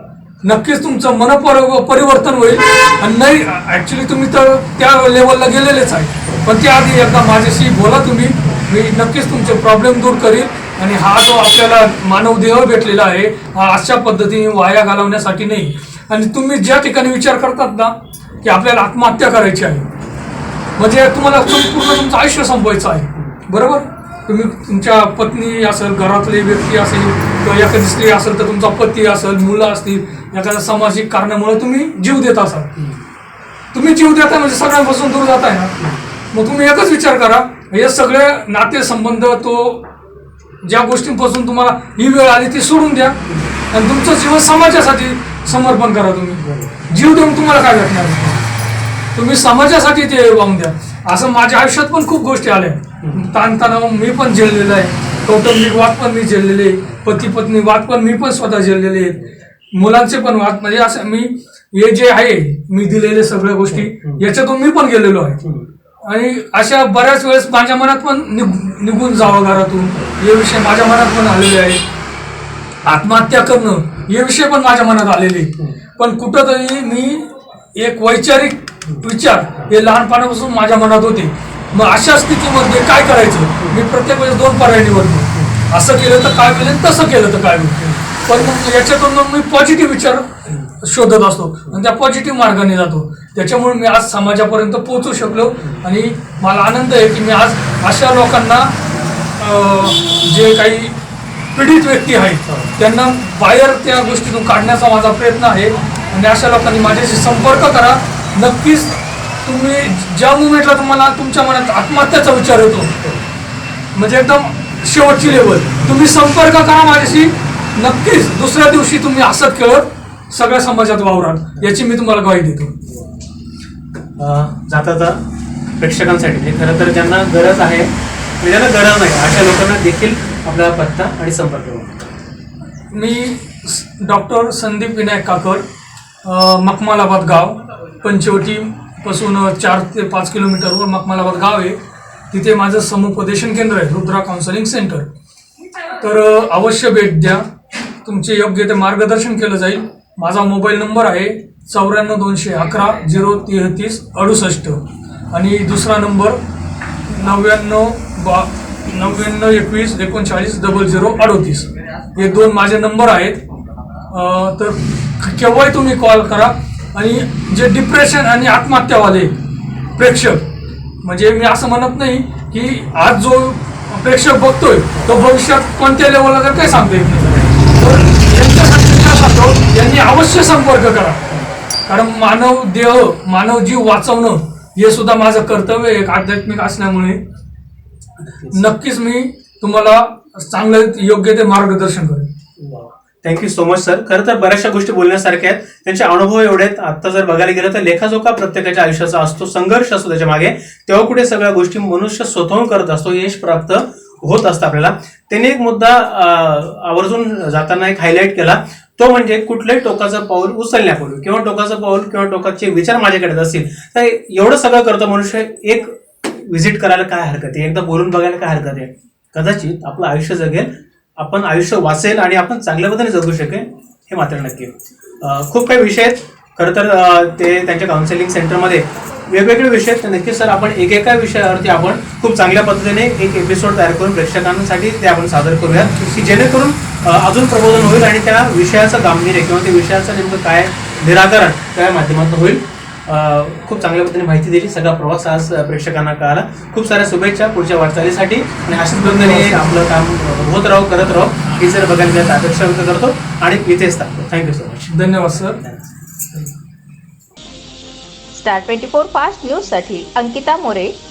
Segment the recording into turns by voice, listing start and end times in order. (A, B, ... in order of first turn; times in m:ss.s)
0:00.4-0:19.9 A
0:20.8-0:32.7 A
0:32.8-0:33.0 B
0:33.7-0:35.8 A
0:35.8-0:36.0 B
0:36.3-0:39.9 A
0:40.6-0:48.4 A
0:43.3-0:43.5 B
0:46.4-0:46.8 B
0:49.1-0:59.2 A
0:59.7-1:05.4 A
1:03.7-1:04.2 B
1:05.4-1:05.7 B
1:06.0-1:11.8 A
1:12.8-1:38.7 A
1:27.8-1:28.5 B
1:39.4-1:40.9 A
1:41.5-1:53.0 A
1:42.4-1:42.7 B
1:53.9-2:02.7 A
1:55.2-1:55.9 B
2:02.8-2:03.2 B
2:04.2-2:05.2 B
2:05.8-2:12.1 B
2:12.9-2:15.6 A
2:16.2-2:21.8 A
2:22.3-2:25.1 A
2:26.0-2:27.4 A
2:28.0-2:36.4 A
2:37.1-2:43.4 A
2:44.1-2:49.3 A
2:50.0-2:50.4 A
2:51.0-3:01.2 A
3:01.9-3:07.2 A
3:08.2-3:08.6 B
3:08.5-3:12.3 A
3:12.6-4:15.9 B
4:08.8-4:09.8 A
4:14.9-4:15.6 A
4:18.3-4:20.9 C